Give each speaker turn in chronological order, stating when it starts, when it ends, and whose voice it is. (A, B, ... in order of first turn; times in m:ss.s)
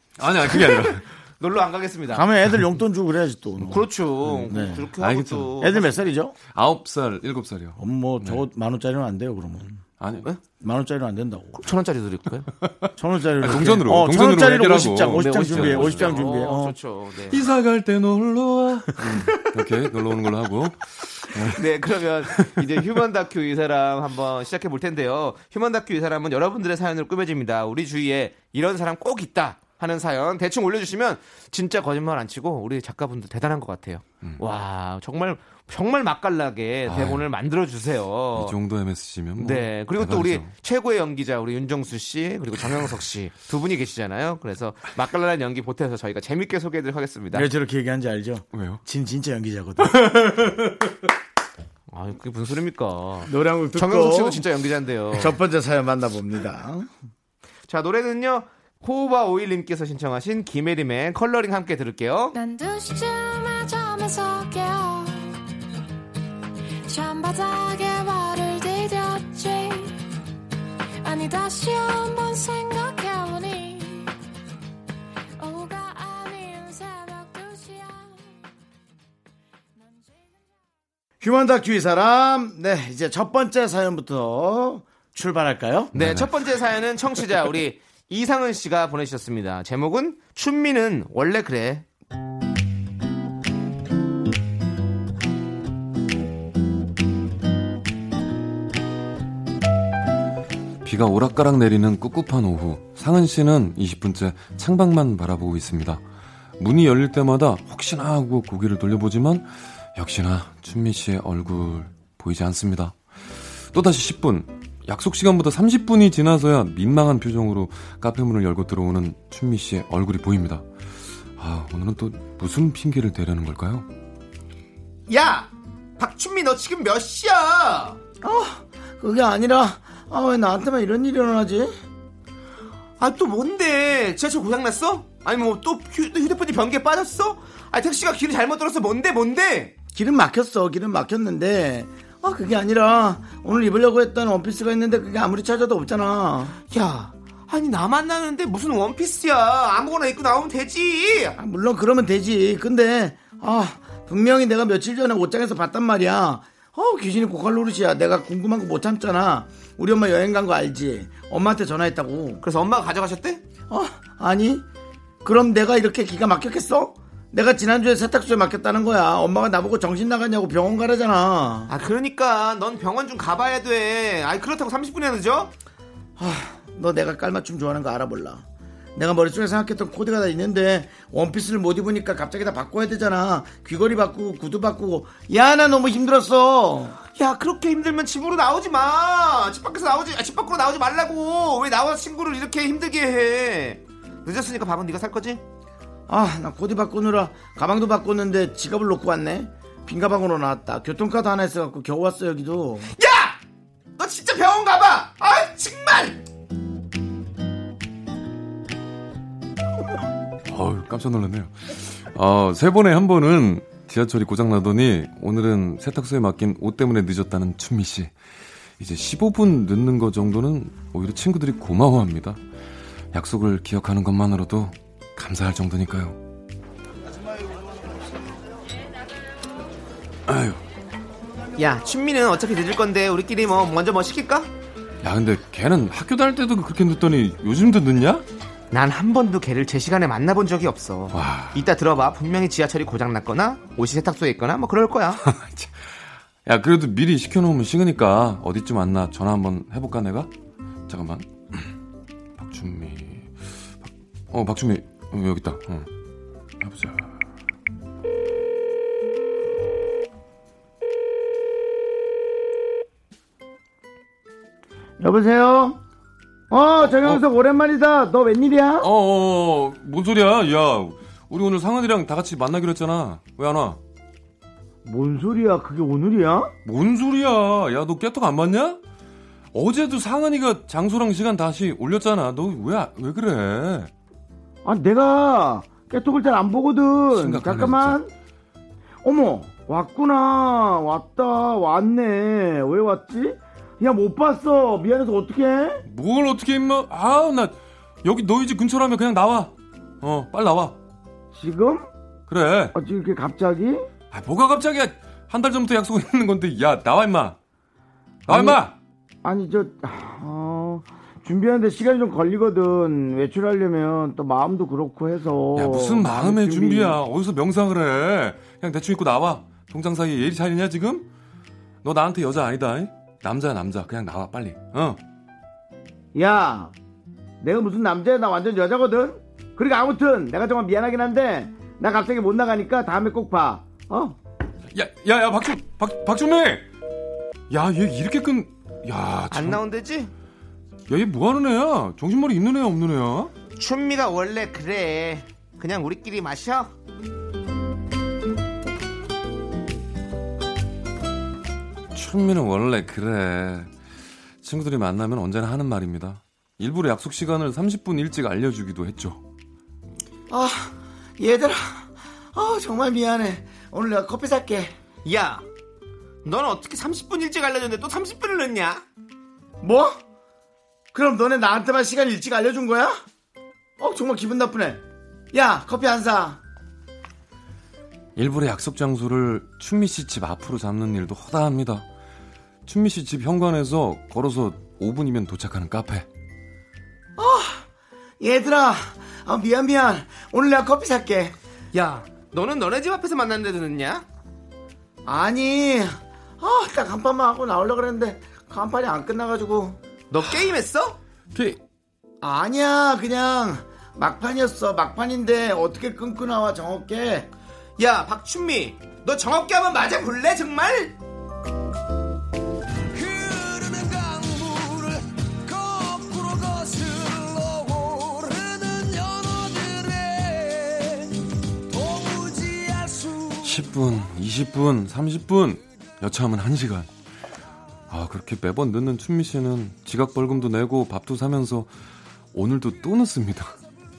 0:00.2-0:01.1 A
0:00.4-0:02.3 B
0:02.1-0:04.9 C
0:03.6-0:06.0 B
0:05.0-0:05.6 A
0:05.6-0:06.4 C
0:06.4-0:08.4 A
0:07.8-0:09.8 C
0:10.0-0:10.3 A
0:10.6-0:11.6 C
0:11.5-0:12.5 B
0:12.6-0:16.2 A
0:13.0-0:16.8 C
0:15.1-0:17.4 B
0:17.3-0:22.6 A
0:21.5-0:38.6 B
0:36.8-0:37.3 A
0:38.3-0:40.5 A
0:39.4-0:47.5 B
0:47.3-0:50.5 C
0:48.5-0:48.8 A
0:51.9-0:55.4 B
0:53.3-0:54.4 C
0:55.1-0:56.9 C
0:57.7-1:02.4 B
1:02.3-1:05.4 D
1:06.9-1:10.0 D
1:11.0-1:14.1 D
1:15.4-1:18.2 D
1:21.2-1:25.9 C
1:25.9-1:26.3 A
1:25.9-1:31.8 B
1:40.8-1:46.0 A
1:46.6-1:53.0 A
1:53.7-2:00.7 A
2:01.4-2:03.9 A
2:05.1-2:08.0 B
2:08.2-2:11.7 C
2:13.0-2:19.7 B
2:19.9-2:26.6 C
2:26.7-2:31.4 B
2:31.4-2:42.4 C
2:42.4-2:43.4 B
2:43.7-2:44.6 C
2:45.2-2:51.7 C
2:51.7-2:55.5 B
2:56.2-3:07.0 C
3:07.1-3:15.4 B
3:16.1-3:22.9 C
3:23.0-3:23.4 B
3:24.0-3:26.2 B
3:30.4-3:38.1 A
3:38.8-3:42.4 A
3:43.1-3:46.2 A
3:50.3-3:50.6 A
3:51.6-3:54.5 B
3:55.0-3:58.2 A
3:58.7-4:05.2 B
4:01.1-4:01.6 A
4:05.2-4:05.7 A
4:06.4-4:10.3 A
4:10.9-4:11.7 A
4:12.4-4:15.9 A
4:16.6-4:17.2 A
4:25.0-4:25.8 C
4:26.5-4:28.9 C
4:26.8-4:27.2 A
4:28.8-4:33.8 A
4:34.8-4:36.5 C
4:36.6-4:38.8 A
4:39.5-4:43.9 A
4:44.6-4:48.1 C
4:47.1-4:48.0 A
4:49.0-4:55.8 C
4:55.9-5:00.8 A
5:01.3-5:01.9 C
5:02.3-5:02.7 A
5:02.7-5:03.9 C
5:04.1-5:07.4 A
5:08.3-5:08.6 C
5:08.3-5:08.8 A
5:09.2-5:17.0 C
5:15.6-5:21.1 A
5:21.8-5:25.0 A
5:26.1-5:26.7 C
5:27.4-5:34.2 C
5:34.7-5:36.6 A
5:37.5-5:39.6 A
5:39.3-5:40.1 B
5:40.9-5:43.3 A
5:43.6-5:46.7 B
5:51.9-5:53.7 A
5:54.4-5:59.2 A
6:00.3-6:04.7 C
6:05.0-6:05.4 B
6:06.2-6:08.8 B
6:09.6-6:10.0 C
6:10.9-6:12.9 C
6:13.8-6:14.8 C
6:15.3-6:16.4 C
6:18.2-6:21.9 A
6:22.6-6:26.1 A
6:27.2-6:27.6 C
6:28.2-6:31.3 C
6:31.7-6:34.0 B
6:35.0-6:39.8 C
6:40.1-6:41.0 B
6:41.3-6:41.6 A
6:42.2-6:47.3 C
6:47.8-6:51.0 B
6:52.9-7:01.1 E
7:01.7-7:03.6 E
7:03.4-7:06.9 A
7:07.9-7:11.7 A
7:12.3-7:13.6 A